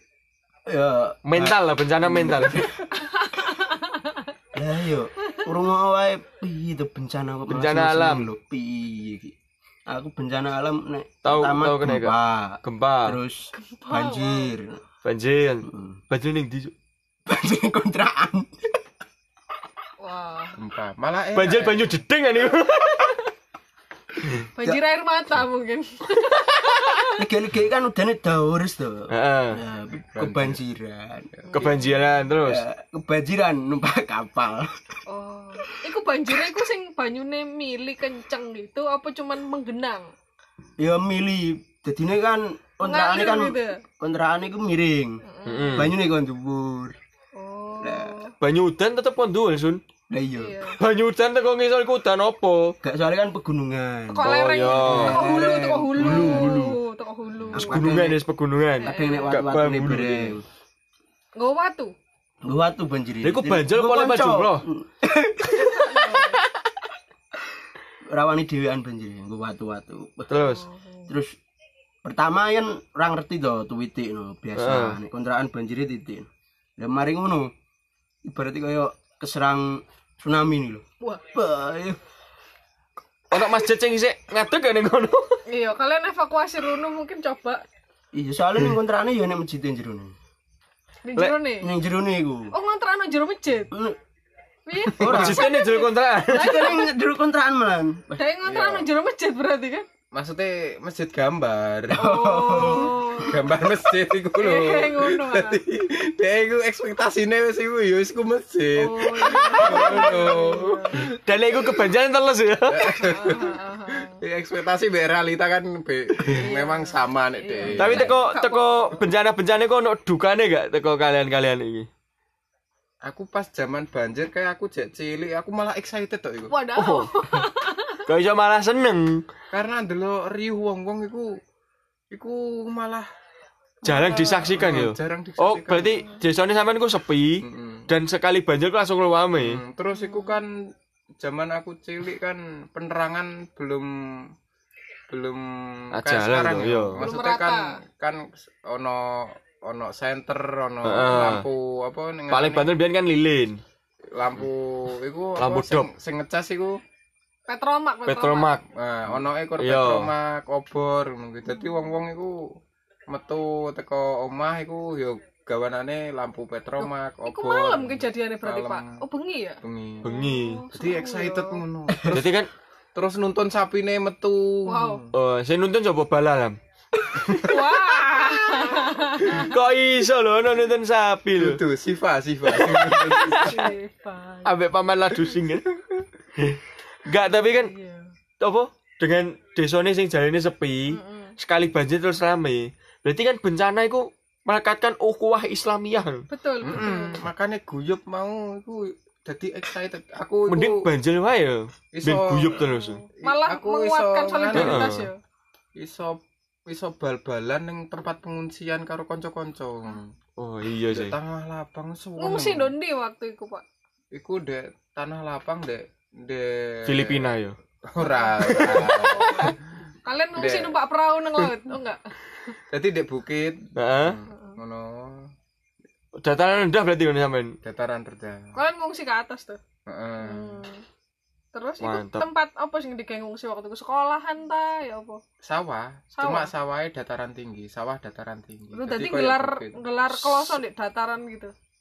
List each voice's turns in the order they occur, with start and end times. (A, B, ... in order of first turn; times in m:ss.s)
0:00.7-0:02.8 A
0:01.2-0:02.7 B
0:03.0-0:04.3 C
0:04.5-0:09.4 A
0:07.5-0:08.3 B
0:09.9-0:14.8 A
0:11.2-0:13.2 B
0:13.8-0:14.5 C
0:15.0-0:16.7 B
0:15.6-0:16.0 A
0:17.3-0:18.7 A
0:20.0-0:20.6 C
0:20.6-0:22.0 D
0:21.4-0:23.2 B
0:24.6-0:27.3 C
0:27.2-0:31.3 A
0:29.1-0:29.6 B
0:29.9-0:30.6 D
0:31.5-0:32.0 C
0:31.5-0:32.6 B
0:32.4-0:34.7 A
0:35.1-0:40.1 C
0:40.8-0:45.2 A
0:42.8-0:43.8 C
0:45.2-0:45.8 C
0:45.4-0:46.0 B
0:45.8-0:47.0 A
0:47.4-0:48.3 C
0:47.8-0:48.2 A
0:48.4-0:49.8 B
0:50.1-0:50.6 A
0:50.4-0:50.8 C
0:50.8-0:52.8 B
0:52.8-0:56.7 A
0:54.1-0:57.9 C
0:54.2-0:55.2 B
0:56.0-0:56.8 B
0:57.5-0:58.2 A
0:57.6-1:00.3 B
0:58.8-0:59.5 C
0:58.8-1:00.4 A
1:01.4-1:01.9 C
1:02.4-1:06.4 A
1:03.2-1:04.7 B
1:05.6-1:06.4 C
1:08.1-1:10.4 A
1:10.3-1:10.6 B
1:10.4-1:11.1 C
1:11.1-1:11.4 A
1:12.0-1:16.3 A
1:14.6-1:15.0 B
1:16.8-1:17.5 A
1:18.2-1:22.0 A
1:23.3-1:25.4 B
1:25.5-1:27.6 C
1:28.1-1:30.2 A
1:31.0-1:31.7 C
1:31.6-1:32.6 A
1:32.5-1:33.7 C
1:33.7-1:34.0 A
1:34.7-1:36.9 C
1:34.9-1:35.5 A
1:35.0-1:36.6 B
1:36.3-1:38.2 A
1:38.2-1:39.9 C
1:38.4-1:38.9 D
1:40.1-1:42.0 D
1:42.0-1:43.2 A
1:42.0-1:43.4 C
1:42.6-1:51.1 D
1:44.4-1:45.6 C
1:48.8-1:51.0 C
1:51.2-1:53.0 B
1:52.7-1:58.1 D
1:52.9-1:54.2 C
1:56.3-1:59.0 C
1:57.8-2:01.9 B
2:03.0-2:06.6 D
2:06.5-2:08.0 C
2:06.8-2:07.2 B
2:08.1-2:09.2 B
2:09.5-2:11.4 D
2:12.1-2:13.1 D
2:13.8-2:19.6 B
2:13.8-2:16.1 D
2:17.4-2:17.9 D
2:19.4-2:24.3 D
2:19.9-2:20.4 C
2:25.1-2:32.7 D
2:25.9-2:27.0 B
2:27.0-2:27.8 C
2:30.8-2:31.5 B
2:32.3-2:33.6 B
2:34.2-2:36.8 D
2:35.4-2:35.9 B
2:37.5-2:38.5 C
2:38.1-2:38.6 B
2:38.7-2:42.5 D
2:39.6-2:40.1 B
2:41.5-2:42.0 C
2:43.1-2:49.0 D
2:46.8-2:51.6 C
2:49.6-2:50.2 D
2:50.0-2:50.6 B
2:50.7-2:52.4 D
2:52.1-2:52.5 B
2:53.0-2:55.1 D
2:54.7-2:55.1 C
2:55.1-2:56.6 B
2:57.2-2:57.5 B
2:57.4-2:59.5 C
2:59.2-3:01.6 B
3:01.4-3:03.8 D
3:02.6-3:03.5 B
3:03.4-3:04.6 C
3:04.4-3:07.7 B
3:07.4-3:08.1 C
3:08.4-3:16.3 B
3:10.9-3:11.4 C
3:16.3-3:17.2 C
3:16.6-3:20.8 D
3:20.5-3:23.0 B
3:21.9-3:22.7 D
3:22.6-3:25.2 C
3:23.2-3:24.9 D
3:24.6-3:25.1 B
3:25.8-3:30.1 D
3:30.4-3:31.2 B
3:30.9-3:32.7 D
3:32.2-3:33.6 C
3:34.1-3:37.3 D
3:36.9-3:37.6 B
3:37.9-3:39.6 D
3:38.0-3:42.5 C
3:40.4-3:40.8 D
3:42.7-3:45.3 D
3:43.8-3:44.2 B
3:46.2-3:47.6 B
3:47.6-3:48.5 D
3:48.6-3:49.6 C
3:49.9-3:50.6 D
3:50.2-3:50.8 C
3:51.5-3:55.2 C
3:51.8-3:52.3 B
3:55.4-4:00.6 D
3:56.2-3:56.5 C
3:58.7-4:01.5 C